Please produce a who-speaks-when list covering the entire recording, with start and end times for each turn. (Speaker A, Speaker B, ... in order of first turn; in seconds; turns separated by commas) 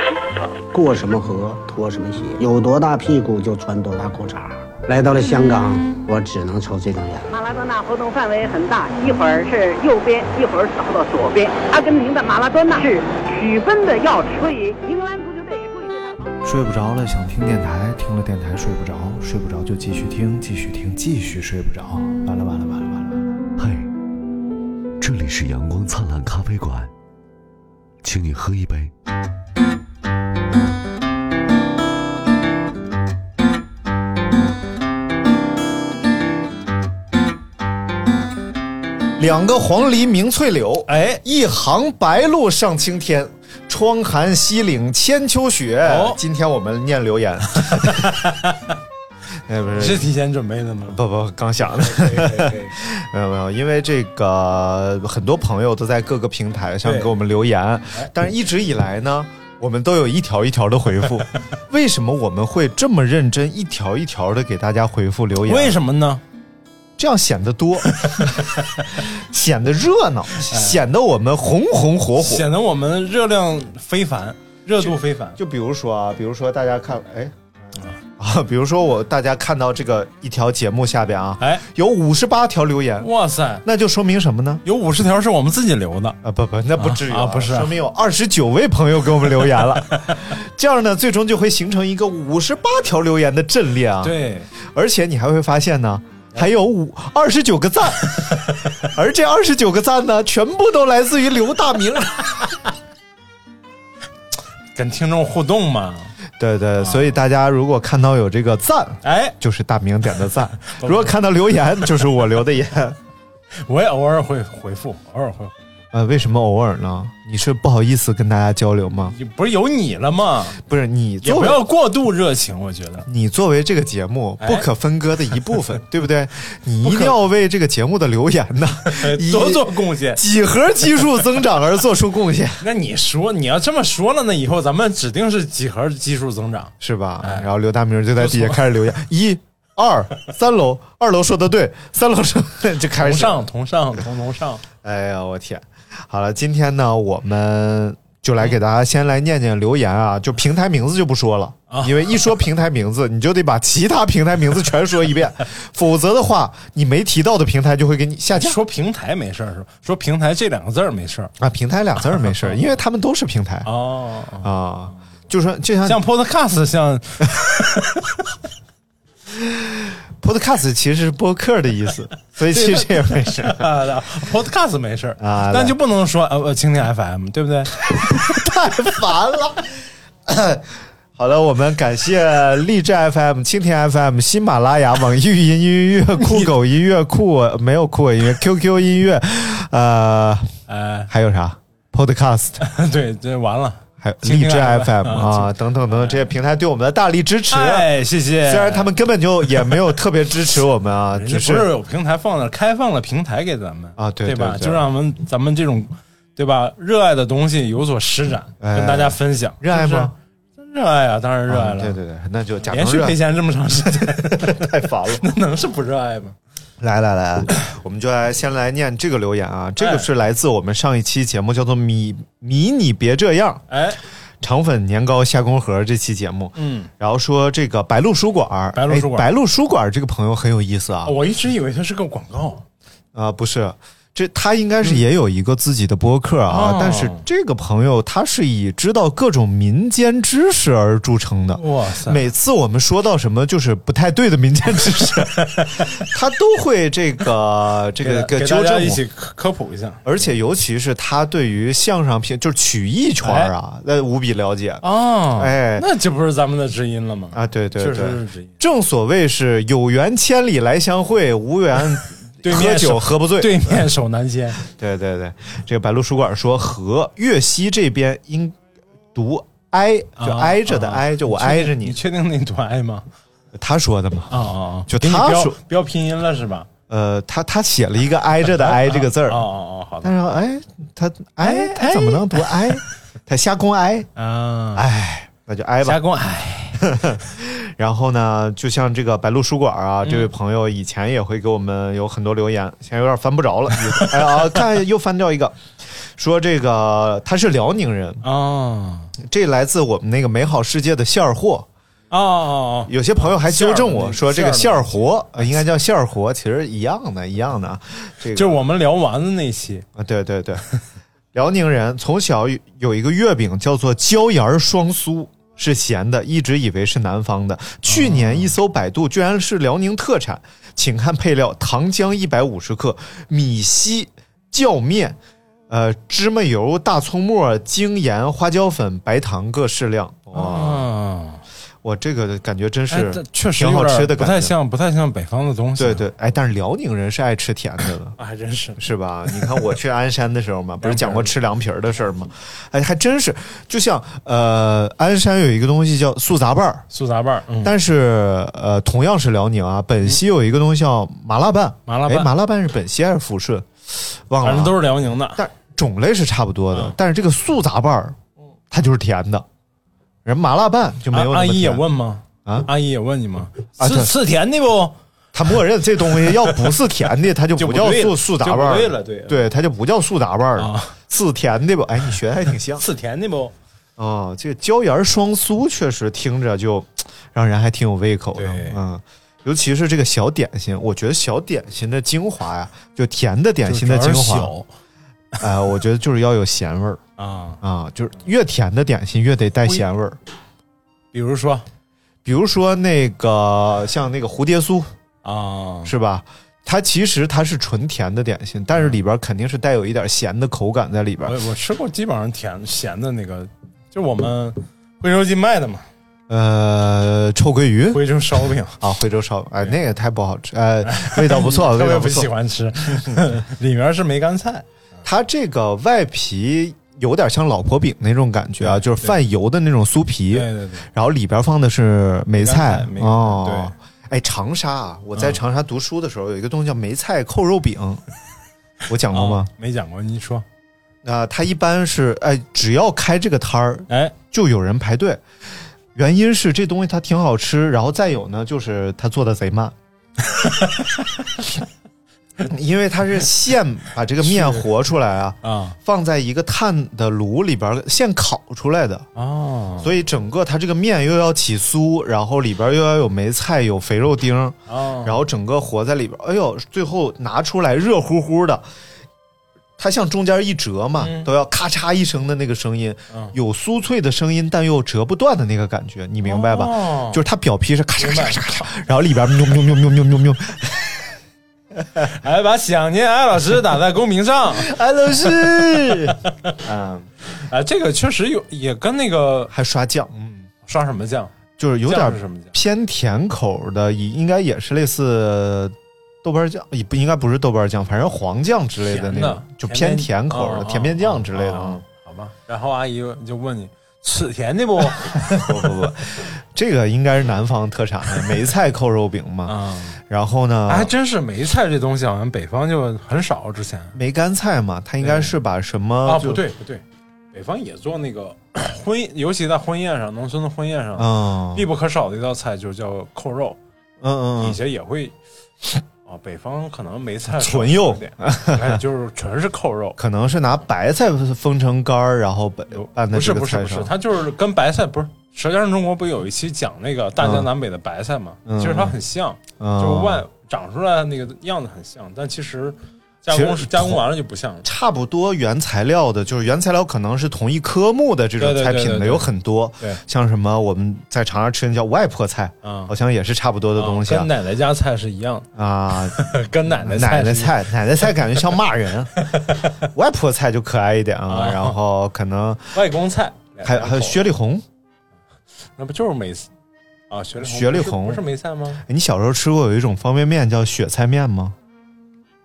Speaker A: 0.7-7.2, Speaker B: 7.3-16.4, Speaker C: 16.4-23.3, Speaker D: 23.6-23.9, Speaker D: 25.0-26.9, Speaker D: 28.0-28.9, Speaker C: 39.2-48.2, Speaker E: 40.9-41.2, Speaker E: 45.8-46.2, Speaker E: 47.6-48.8, Speaker C: 49.5-50.1, Speaker E: 49.7-51.0, Speaker C: 50.9-65.8, Speaker E: 51.6-52.7, Speaker E: 56.8-57.1, Speaker E: 65.4-66.2, Speaker C: 67.0-72.5, Speaker E: 67.8-69.0, Speaker E: 70.4-70.8, Speaker E: 72.2-75.4, Speaker C: 74.8-77.3, Speaker C: 78.2-83.1, Speaker E: 83.0-83.6, Speaker C: 83.6-84.6, Speaker E: 84.6-86.2, Speaker C: 86.2-102.5, Speaker E: 86.8-87.7, Speaker E: 89.5-90.3, Speaker E: 94.0-94.5, Speaker E: 104.7-106.1, Speaker C: 106.4-113.0, Speaker E: 106.8-107.1, Speaker E: 109.0-109.4, Speaker E: 110.7-111.2, Speaker E: 111.8-112.0, Speaker E: 113.6-115.6, Speaker C: 115.9-119.1, Speaker E: 119.0-120.6, Speaker C: 120.6-121.6, Speaker E: 121.2-123.1, Speaker C: 123.0-132.6, Speaker E: 124.4-124.7, Speaker E: 126.8-127.2, Speaker E: 128.8-130.2, Speaker E: 132.6-137.5, Speaker C: 136.8-143.4, Speaker E: 138.2-138.6, Speaker E: 143.0-144.6, Speaker C: 144.8-158.6, Speaker E: 151.7-152.3, Speaker E: 158.3-161.3, Speaker C: 161.4-163.7, Speaker E: 162.0-162.6, Speaker E: 163.6-164.5, Speaker C: 164.4-166.0, Speaker E: 165.8-168.2, Speaker C: 169.3-173.7, Speaker E: 172.5-178.2, Speaker C: 175.2-175.8, Speaker C: 177.9-179.7, Speaker C: 180.3-190.5, Speaker E: 186.2-186.5, Speaker E: 190.7-191.1, Speaker C: 191.1-192.6, Speaker E: 192.6-196.3, Speaker C: 194.0-197.9, Speaker E: 197.5-198.9, Speaker C: 198.4-201.7, Speaker E: 199.4-199.9, Speaker E: 201.1-212.0, Speaker C: 204.0-204.9, Speaker C: 208.6-210.1, Speaker C: 211.5-213.2, Speaker E: 212.6-216.3, Speaker C: 214.3-215.2, Speaker C: 216.8-223.6, Speaker E: 219.8-220.1, Speaker E: 223.7-224.0, Speaker C: 224.4-231.2, Speaker E: 226.6-226.9, Speaker E: 228.7-229.3, Speaker E: 231.0-232.6, Speaker C: 233.1-249.0, Speaker E: 236.5-237.2, Speaker E: 241.5-242.2, Speaker E: 245.3-246.0, Speaker E: 248.0-250.1, Speaker C: 250.0-255.9, Speaker E: 253.2-253.5, Speaker E: 254.8-258.6, Speaker C: 257.3-263.9, Speaker E: 262.4-264.6, Speaker C: 264.6-268.6, Speaker C: 269.1-272.0, Speaker E: 270.2-273.1, Speaker C: 273.5-275.6, Speaker E: 274.3-276.7, Speaker C: 276.9-279.5, Speaker E: 278.4-280.1, Speaker C: 280.0-284.1, Speaker E: 281.4-282.8, Speaker E: 284.1-284.9, Speaker C: 284.7-286.0, Speaker E: 285.8-286.9, Speaker C: 286.8-295.6, Speaker E: 290.0-290.3, Speaker E: 293.8-294.6, Speaker C: 296.2-298.2, Speaker E: 298.2-299.1, Speaker C: 299.2-301.7, Speaker E: 302.1-305.0, Speaker C: 302.9-308.6, Speaker E: 308.3-309.9, Speaker C: 309.9-310.6, Speaker C: 311.3-325.2, Speaker E: 317.9-318.5, Speaker C: 325.7-330.8, Speaker E: 330.3-331.4, Speaker C: 331.8-334.5, Speaker E: 332.9-336.1, Speaker C: 335.8-338.1, Speaker E: 338.2-339.6, Speaker C: 338.8-346.9, Speaker E: 340.8-341.3, Speaker E: 346.9-347.8, Speaker C: 347.6-354.8, Speaker E: 351.9-352.3, Speaker E: 354.4-355.4, Speaker C: 355.3-358.2, Speaker C: 358.7-359.4, Speaker C: 360.2-361.8, Speaker E: 361.1-365.0, Speaker C: 363.8-364.1, Speaker C: 365.3-372.8, Speaker E: 366.2-366.5, Speaker E: 367.6-369.5, Speaker E: 370.6-370.9, Speaker E: 372.7-373.5, Speaker C: 374.0-384.5, Speaker E: 378.4-378.8, Speaker E: 383.6-384.7, Speaker C: 385.4-387.0, Speaker E: 387.2-387.6, Speaker C: 387.6-390.2, Speaker E: 391.1-391.6, Speaker C: 392.2-394.9, Speaker E: 395.2-395.9, Speaker C: 395.8-401.4, Speaker E: 398.7-399.0, Speaker E: 401.2-405.9, Speaker C: 406.3-408.0, Speaker E: 407.9-408.8, Speaker C: 408.8-412.3, Speaker E: 410.8-414.7, Speaker C: 412.9-413.3, Speaker C: 415.0-428.0, Speaker E: 418.6-419.2, Speaker E: 420.3-420.9, Speaker E: 422.3-423.7, Speaker E: 425.1-425.4, Speaker C: 428.9-429.5, Speaker E: 429.1-430.4, Speaker C: 431.0-435.2, Speaker E: 433.9-434.1, Speaker C: 435.9-439.7, Speaker E: 440.4-440.8, Speaker C: 442.4-449.1, Speaker E: 444.2-444.7, Speaker E: 445.4-445.8, Speaker E: 449.1-449.9, Speaker C: 449.8-458.6, Speaker E: 454.7-455.2, Speaker C: 459.8-471.1, Speaker E: 461.0-461.3, Speaker E: 463.1-463.4, Speaker E: 466.2-467.2, Speaker E: 468.0-468.7, Speaker E: 472.0-476.6, Speaker C: 474.5-477.1, Speaker E: 477.4-479.5, Speaker C: 479.5-480.5, Speaker E: 480.6-481.3, Speaker C: 481.6-491.8, Speaker E: 481.8-482.5, Speaker E: 488.9-495.4, Speaker C: 495.2-499.6, Speaker E: 499.4-500.0, Speaker C: 500.1-500.9, Speaker E: 500.7-504.0, Speaker C: 503.9-506.4, Speaker E: 505.0-505.3, Speaker E: 506.0-513.6, Speaker C: 511.0-511.7, Speaker C: 514.0-514.6, Speaker E: 514.4-515.1, Speaker E: 516.0-520.0, Speaker C: 517.3-518.8, Speaker C: 520.0-523.9, Speaker E: 522.7-534.6, Speaker C: 527.2-527.5, Speaker C: 528.5-529.0, Speaker C: 529.6-530.2, Speaker C: 533.3-534.1, Speaker C: 534.6-544.3, Speaker E: 538.4-539.3, Speaker E: 542.6-542.9, Speaker E: 543.8-548.1, Speaker C: 545.5-549.1, Speaker E: 549.1-549.7, Speaker C: 549.8-552.8, Speaker E: 551.3-551.8, Speaker E: 552.7-554.3, Speaker C: 553.6-554.6, Speaker E: 555.8-556.5, Speaker E: 557.1-558.8, Speaker C: 557.4-558.2, Speaker C: 558.8-561.5